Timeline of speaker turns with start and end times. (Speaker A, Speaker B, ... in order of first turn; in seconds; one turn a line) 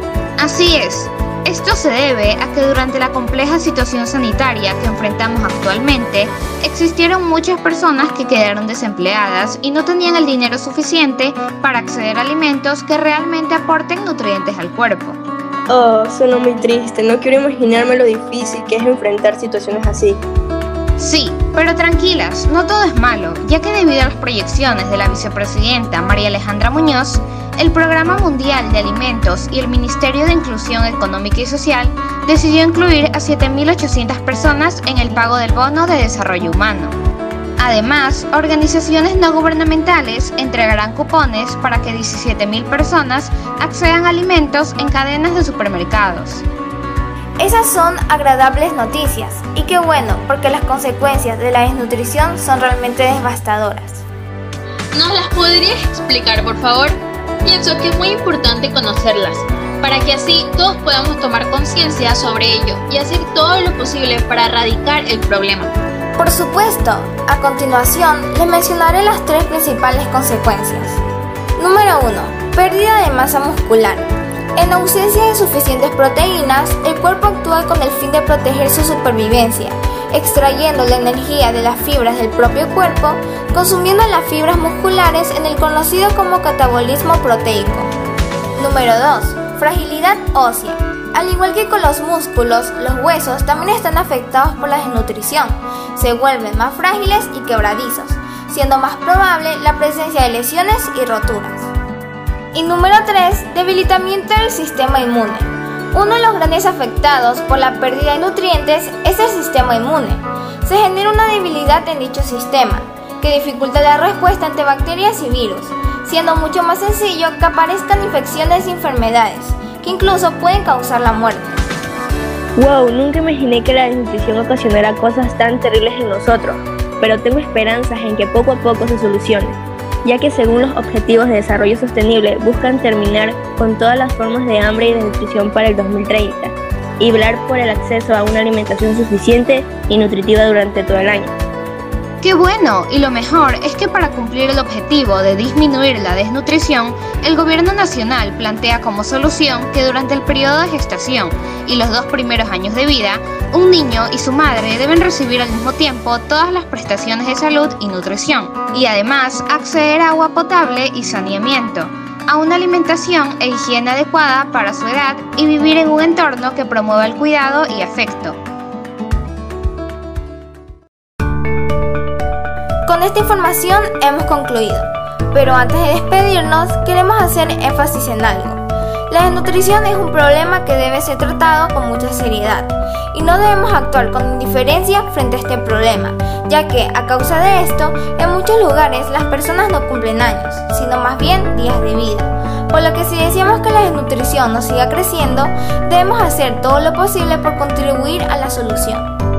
Speaker A: 0.4-15.2
Speaker B: 15.7-20.2
Speaker A: 21.0-37.0
Speaker A: 37.6-46.4
Speaker C: 47.4-54.0
Speaker D: 54.9-65.7
Speaker C: 66.2-71.0
Speaker C: 71.6-74.0
Speaker C: 74.6-87.9
Speaker C: 88.5-101.7
Speaker C: 102.5-121.6
Speaker B: 122.6-141.3
Speaker A: 142.2-168.4
Speaker C: 172.8-199.0